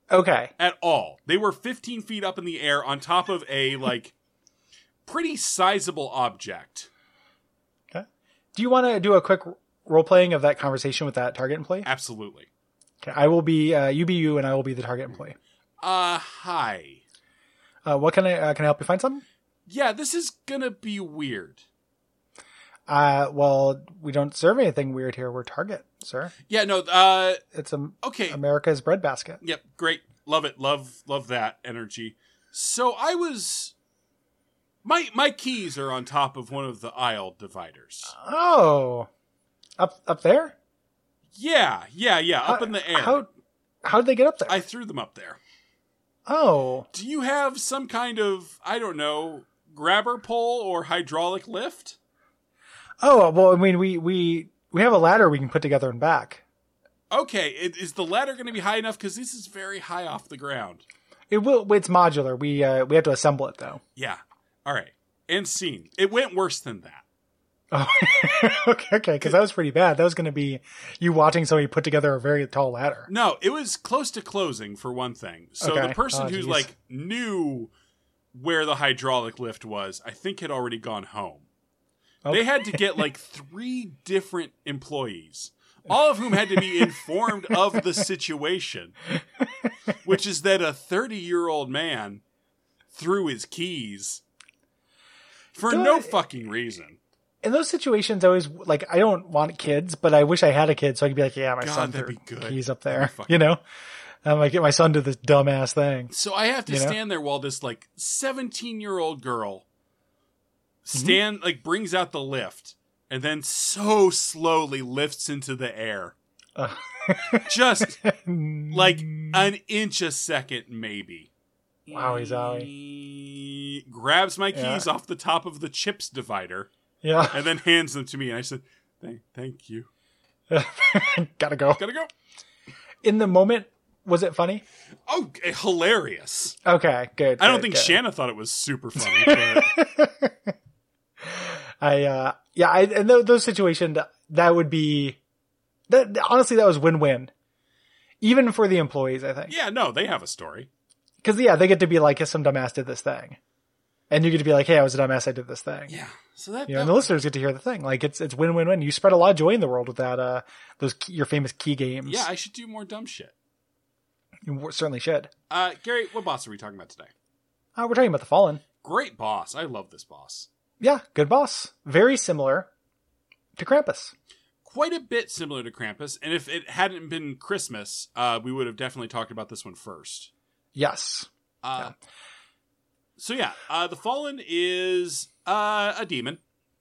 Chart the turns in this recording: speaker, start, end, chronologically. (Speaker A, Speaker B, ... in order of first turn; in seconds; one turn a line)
Speaker A: 0.1-0.5
Speaker B: 0.6-4.1
Speaker B: 5.1-6.9
Speaker A: 7.9-11.9
Speaker B: 11.8-12.5
Speaker A: 13.0-15.4
Speaker B: 15.8-17.0
Speaker A: 17.9-19.2
Speaker B: 19.7-21.6
Speaker A: 22.9-26.3
Speaker B: 26.5-27.4
Speaker A: 27.5-29.4
Speaker B: 28.0-28.4
Speaker B: 29.4-33.7
Speaker B: 34.8-38.1
Speaker A: 38.1-39.1
Speaker A: 39.8-40.5
Speaker B: 41.4-43.3
Speaker A: 42.5-43.3
Speaker A: 43.9-44.6
Speaker B: 44.5-45.4
Speaker A: 46.3-46.9
Speaker B: 46.9-52.0
Speaker A: 53.0-56.4
Speaker B: 57.1-60.9
Speaker A: 61.3-63.8
Speaker B: 64.0-67.0
Speaker A: 67.7-73.1
Speaker B: 73.1-77.7
Speaker A: 75.6-76.7
Speaker B: 78.3-81.5
Speaker A: 82.2-83.1
Speaker B: 82.3-89.0
Speaker A: 86.3-87.9
Speaker B: 90.0-92.2
Speaker B: 92.9-94.2
Speaker B: 95.5-97.0
Speaker A: 95.7-96.2
Speaker A: 97.4-103.6
Speaker B: 101.6-103.4
Speaker A: 104.2-106.1
Speaker B: 106.1-109.7
Speaker A: 106.7-107.0
Speaker B: 110.8-116.1
Speaker A: 111.0-111.2
Speaker A: 116.6-119.5
Speaker B: 117.4-118.0
Speaker B: 118.7-121.3
Speaker B: 121.9-126.7
Speaker A: 121.9-122.7
Speaker A: 124.5-124.9
Speaker A: 127.0-127.5
Speaker B: 127.3-129.9
Speaker A: 130.5-131.8
Speaker B: 131.8-132.1
Speaker A: 133.0-134.6
Speaker B: 135.1-136.6
Speaker A: 136.6-138.0
Speaker B: 137.4-139.8
Speaker A: 139.0-140.5
Speaker A: 141.3-145.2
Speaker A: 145.9-147.3
Speaker A: 148.2-149.6
Speaker B: 149.5-150.7
Speaker A: 151.2-153.4
Speaker A: 154.1-155.9
Speaker B: 155.9-157.2
Speaker A: 156.7-162.3
Speaker B: 162.1-163.3
Speaker A: 164.5-165.3
Speaker B: 165.5-167.1
Speaker A: 167.8-168.6
Speaker B: 168.8-170.5
Speaker A: 170.8-172.7
Speaker A: 173.6-174.1
Speaker B: 174.7-180.3
Speaker A: 180.8-181.9
Speaker B: 181.6-181.9
Speaker B: 183.2-186.4